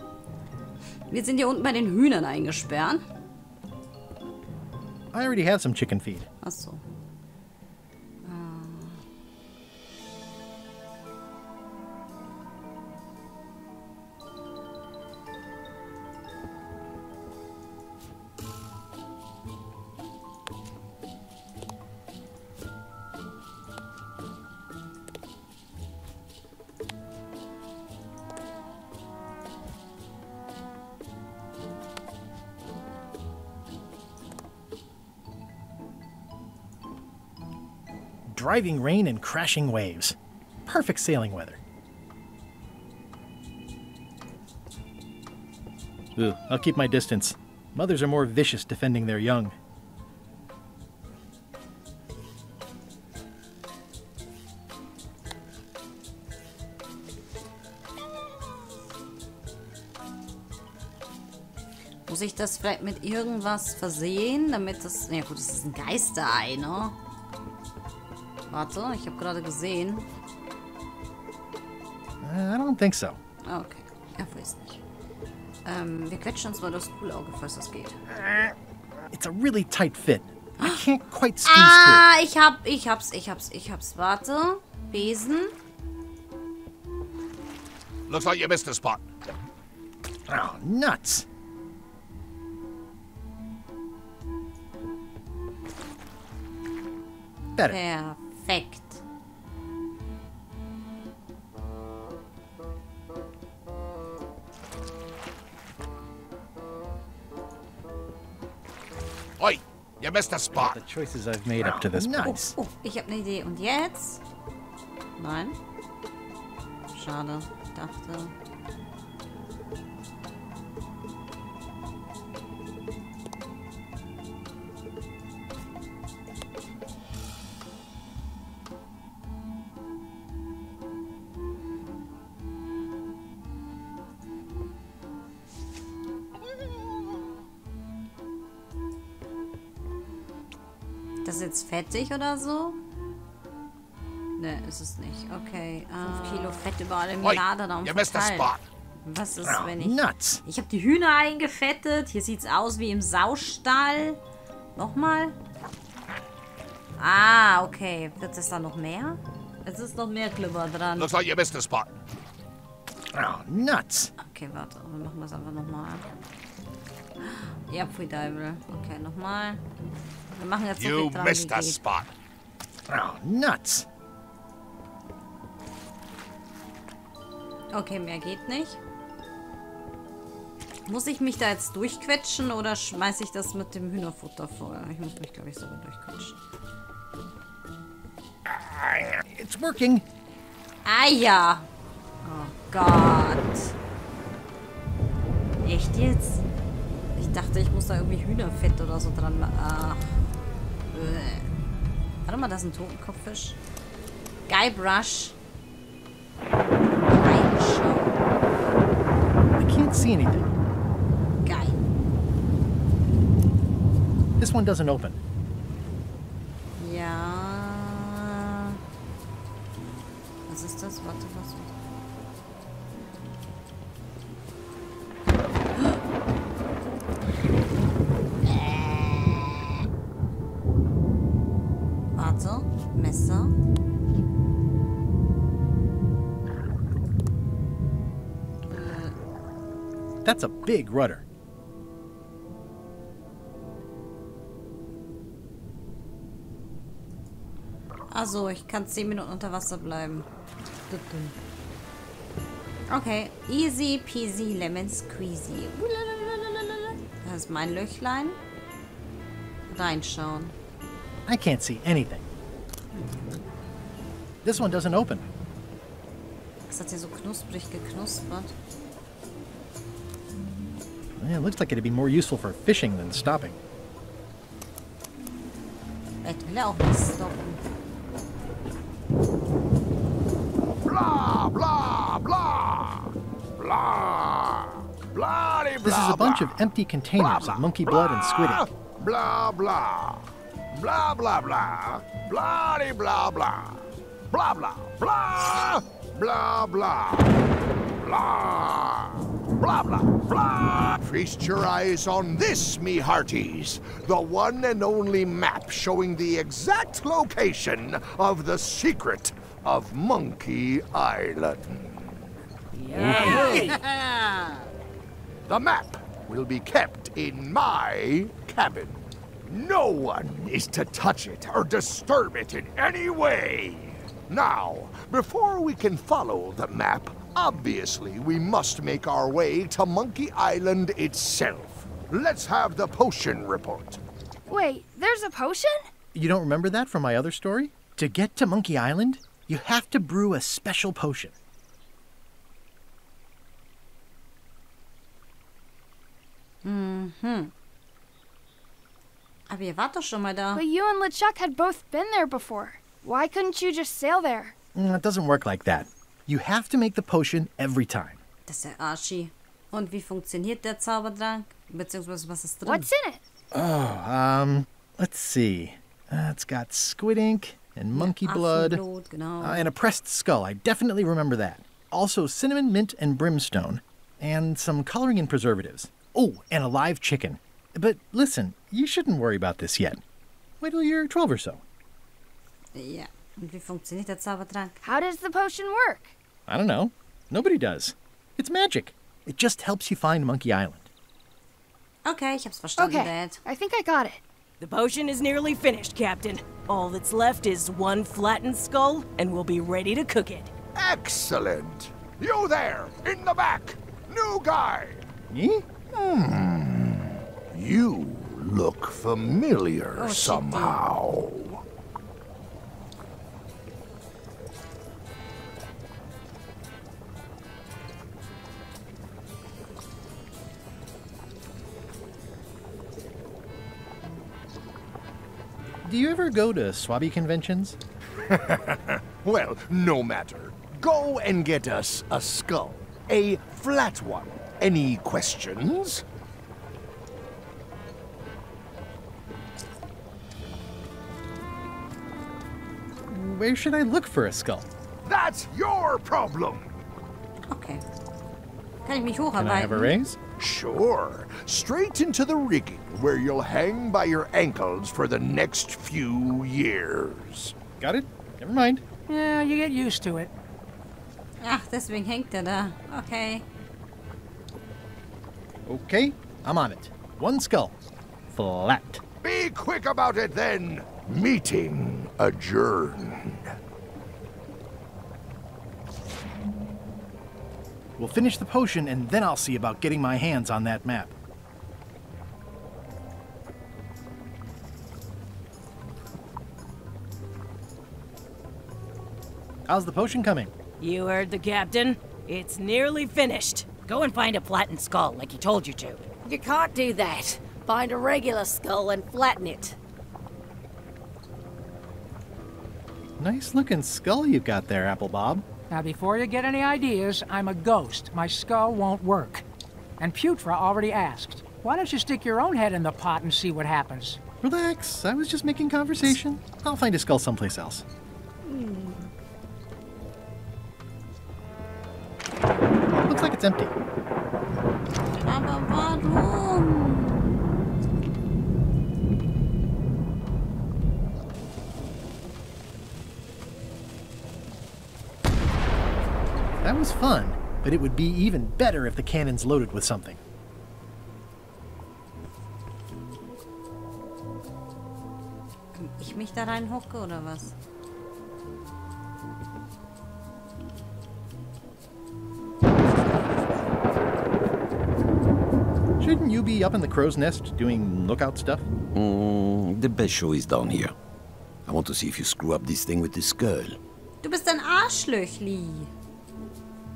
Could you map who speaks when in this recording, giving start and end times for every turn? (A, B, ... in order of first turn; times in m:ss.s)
0:01.1-0:03.0 A
0:05.1-0:06.3 B
0:06.4-0:06.8 A
0:08.2-0:09.0 A
0:38.3-0:41.6 B
0:46.2-0:49.6 B
1:02.1-1:07.0 A
1:08.5-1:10.0 A
1:12.2-1:13.2 B
1:13.5-1:14.8 A
1:15.6-1:18.0 A
1:19.1-1:22.0 B
1:20.6-1:20.8 A
1:21.4-1:25.5 A
1:28.1-1:29.0 C
1:30.3-1:31.2 B
1:37.6-1:39.0 A
1:49.4-1:50.8 C
1:50.5-1:52.6 B
1:52.0-1:54.2 A
1:55.2-1:55.6 A
1:56.9-1:58.3 A
2:21.2-2:22.8 A
2:24.4-2:28.5 A
2:27.2-2:28.6 C
2:29.0-2:34.2 A
2:29.4-2:30.4 B
2:34.7-2:35.4 A
2:37.0-2:41.1 A
2:41.0-2:41.9 C
2:43.1-2:44.1 B
2:44.2-2:46.0 A
2:47.2-2:49.6 A
2:50.3-2:51.8 A
2:50.8-2:52.1 C
2:52.9-2:53.8 B
2:57.7-2:58.8 A
3:00.8-3:06.4 A
3:09.2-3:10.0 B
3:10.8-3:11.7 A
3:12.2-3:13.7 A
3:15.6-3:16.4 A
3:17.2-3:20.3 A
3:20.9-3:21.5 A
3:22.2-3:23.6 A
3:24.5-3:25.4 A
3:27.0-3:28.2 A
3:29.6-3:30.5 B
3:31.4-3:31.8 A
3:34.4-3:35.2 B
3:36.8-3:38.8 A
3:40.5-3:41.7 A
3:48.4-3:49.4 A
3:52.1-3:53.5 A
3:58.7-3:59.1 A
4:00.2-4:01.2 B
4:08.1-4:10.2 A
4:10.9-4:11.3 A
4:12.9-4:18.4 A
4:19.7-4:20.6 A
4:21.2-4:22.3 B
4:22.9-4:23.3 A
4:24.4-4:25.3 B
4:26.7-4:28.5 A
4:31.2-4:33.6 B
4:36.2-4:37.6 A
4:40.8-4:46.6 C
4:45.8-4:48.7 B
4:47.2-4:57.4 C
4:58.0-5:12.2 C
5:12.7-5:13.8 D
5:13.0-5:13.3 E
5:13.1-5:13.8 C
5:13.4-5:14.6 A
5:15.5-5:34.0 C
5:34.5-5:35.9 F
5:36.1-5:41.3 B
5:46.6-5:47.5 A
5:49.5-5:50.6 A
5:50.5-5:54.5 F
5:54.7-5:58.2 B
5:58.4-6:02.9 A
6:02.6-6:03.2 F
6:03.5-6:08.8 B
6:07.9-6:09.7 A
6:09.4-6:20.0 B
6:20.6-6:21.6 B
6:22.7-6:24.8 A
6:24.8-6:26.1 F
6:26.5-6:30.9 B
6:32.0-6:33.4 A
6:32.8-6:34.2 F
6:34.6-6:40.5 D
6:40.8-6:45.0 C
6:45.3-6:46.4 B
6:46.3-6:51.6 C
6:49.9-6:50.8 A
7:05.8-7:07.8 B
7:08.2-7:16.0 C
7:23.1-7:24.7 B
7:25.0-7:26.7 C
7:27.5-7:27.8 A
7:28.8-7:29.9 A
7:29.4-7:30.2 B
7:30.4-7:37.6 C
7:37.8-7:38.8 B
7:39.1-7:40.3 G
7:41.4-7:43.4 A
7:45.7-7:47.7 B
7:48.3-7:49.0 B
7:49.2-7:53.5 C
7:58.0-8:01.1 B
8:09.6-8:10.5 B
8:10.8-8:13.7 D
8:13.9-8:16.0 H
8:16.2-8:19.8 I
8:23.2-8:25.4 B
8:25.7-8:29.4 G
8:30.0-8:34.2 G
8:34.4-8:37.8 B
8:38.4-8:39.1 A
8:43.0-8:43.7 B
8:45.2-8:47.4 A
8:56.6-9:00.2 B
9:05.7-9:07.5 A
9:16.0-9:18.7 B
9:18.9-9:20.9 E
9:21.6-9:23.8 E
9:24.2-9:25.9 A